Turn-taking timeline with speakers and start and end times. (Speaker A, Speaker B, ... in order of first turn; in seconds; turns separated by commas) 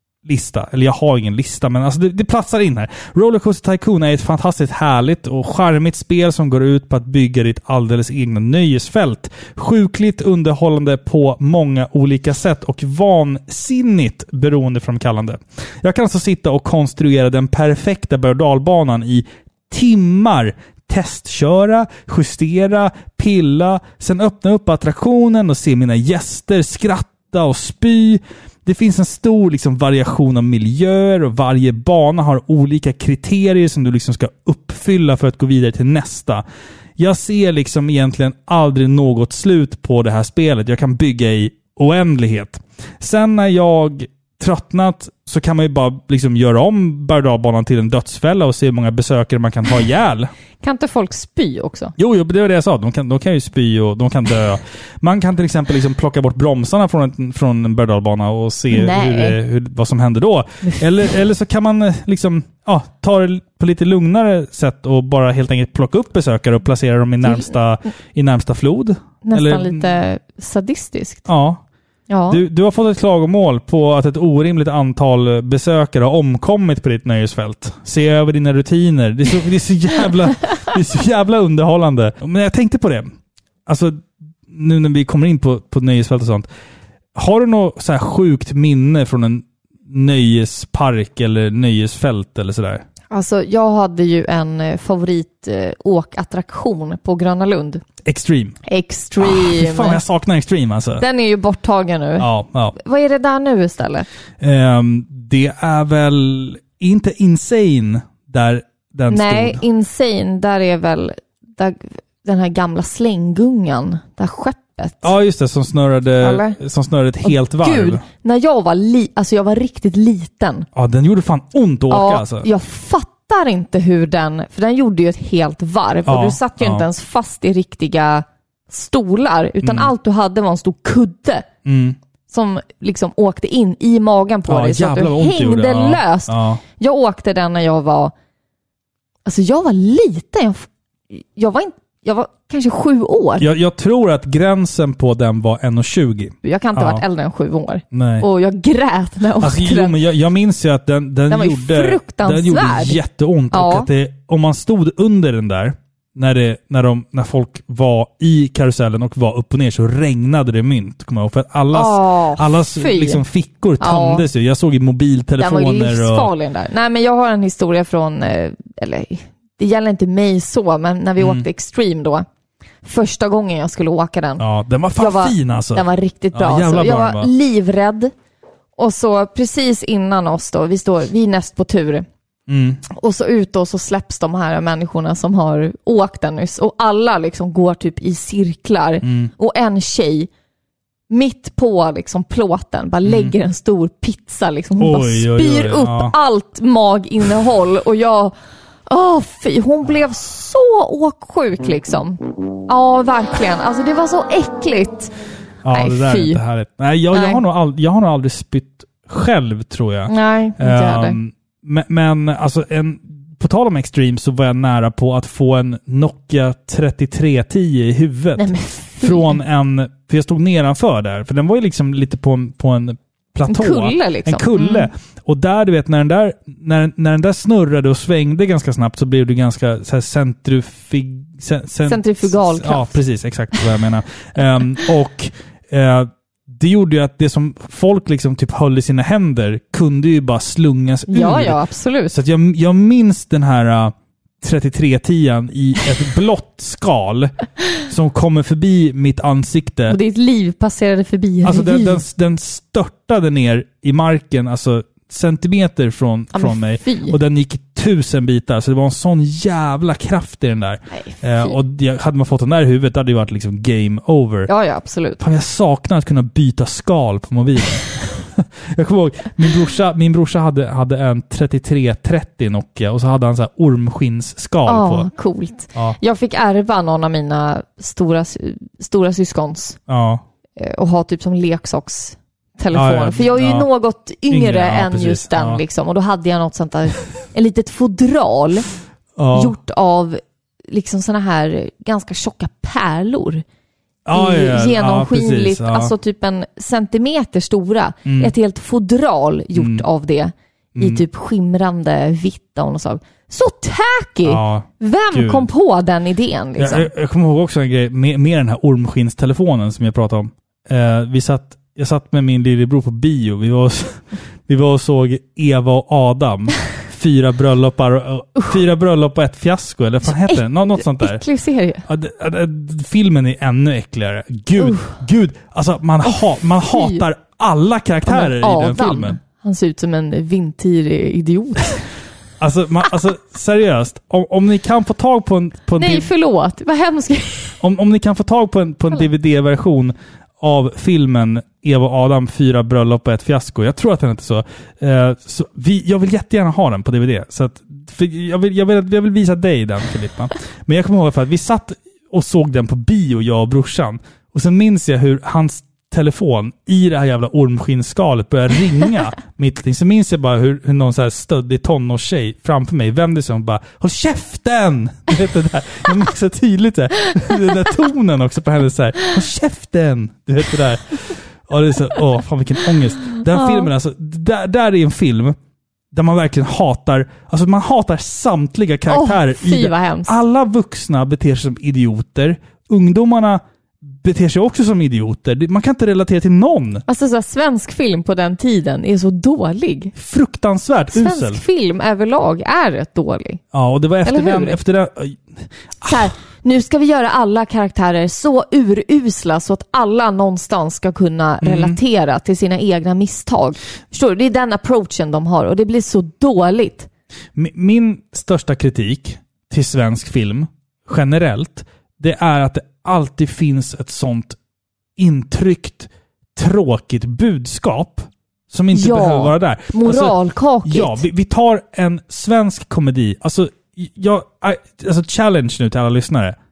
Speaker A: 0.2-36.4, Speaker A: 37.0-50.3, Speaker B: 50.6-51.9, Speaker A: 52.0-70.0, Speaker B: 58.7-59.4, Speaker B: 67.2-67.5, Speaker B: 69.2-71.2, Speaker A: 71.3-71.6, Speaker B: 72.1-72.4, Speaker A: 72.3-83.1, Speaker A: 83.7-86.5, Speaker A: 87.1-92.8, Speaker B: 93.1-97.8, Speaker A: 98.0-98.6, Speaker B: 98.7-100.0, Speaker A: 99.2-101.0, Speaker B: 101.0-104.1, Speaker A: 102.2-102.7, Speaker A: 104.4-109.6, Speaker B: 109.1-115.1, Speaker A: 115.0-118.0, Speaker B: 116.2-116.6, Speaker B: 117.2-120.7, Speaker A: 120.7-122.5, Speaker B: 121.9-131.5, Speaker A: 126.0-126.9, Speaker A: 129.6-129.9, Speaker A: 131.6-132.0, Speaker B: 132.3-138.1, Speaker A: 134.5-136.6, Speaker B: 139.2-143.5, Speaker A: 143.4-147.0, Speaker B: 146.4-149.9, Speaker A: 147.9-148.3, Speaker A: 149.4-166.3, Speaker B: 151.3-153.0, Speaker B: 153.5-153.9, Speaker B: 161.7-163.2, Speaker B: 163.8-164.2, Speaker B: 165.4-172.3, Speaker A: 171.2-171.4, Speaker B: 172.8-174.4, Speaker A: 174.4-177.3, Speaker B: 175.0-178.1, Speaker B: 178.8-182.1, Speaker A: 182.5-182.8, Speaker B: 182.9-190.3, Speaker A: 189.0-189.3, Speaker B: 191.1-198.3, Speaker A: 193.1-193.3, Speaker A: 194.8-196.1, Speaker B: 198.9-205.1, Speaker A: 205.6-241.6, Speaker B: 205.7-206.4, Speaker B: 207.1-207.4, Speaker B: 210.1-211.2, Speaker B: 218.4-219.4, Speaker B: 223.5-224.9, Speaker B: 231.9-233.0, Speaker B: 241.1-242.1, Speaker A: 242.1-250.0, Speaker B: 249.9-252.0, Speaker A: 251.4-264.5, Speaker B: 256.3-257.2, Speaker B: 260.9-261.6, Speaker B: 264.5-265.2, Speaker A: 265.2-275.1, Speaker B: 274.6-279.8, Speaker A: 279.9-280.2, Speaker B: 280.6-288.7, Speaker A: 282.7-283.7, Speaker A: 284.3-285.6, Speaker A: 289.2-289.5, Speaker B: 289.3-293.4, Speaker A: 294.1-295.9, Speaker B: 294.1-306.9, Speaker A: 298.1-298.3, Speaker A: 299.6-299.8, Speaker A: 300.8-301.0, Speaker A: 304.2-305.5, Speaker A: 306.6-321.2, Speaker B: 320.1-321.9, Speaker A: 321.9-329.2, Speaker B: 324.6-324.9, Speaker B: 326.7-327.0, Speaker B: 328.1-331.9, Speaker A: 332.4-336.1, Speaker B: 335.8-337.6, Speaker A: 337.6-375.4, Speaker B: 373.4-373.7, Speaker A: 375.9-386.8, Speaker B: 378.9-380.1, Speaker B: 386.9-389.9, Speaker A: 389.9-391.4, Speaker B: 390.9-393.4, Speaker A: 393.5-396.1, Speaker B: 394.0-394.6, Speaker B: 395.8-406.9, Speaker A: 401.4-401.8, Speaker A: 407.3-414.4, Speaker A: 415.0-426.4, Speaker B: 418.7-421.0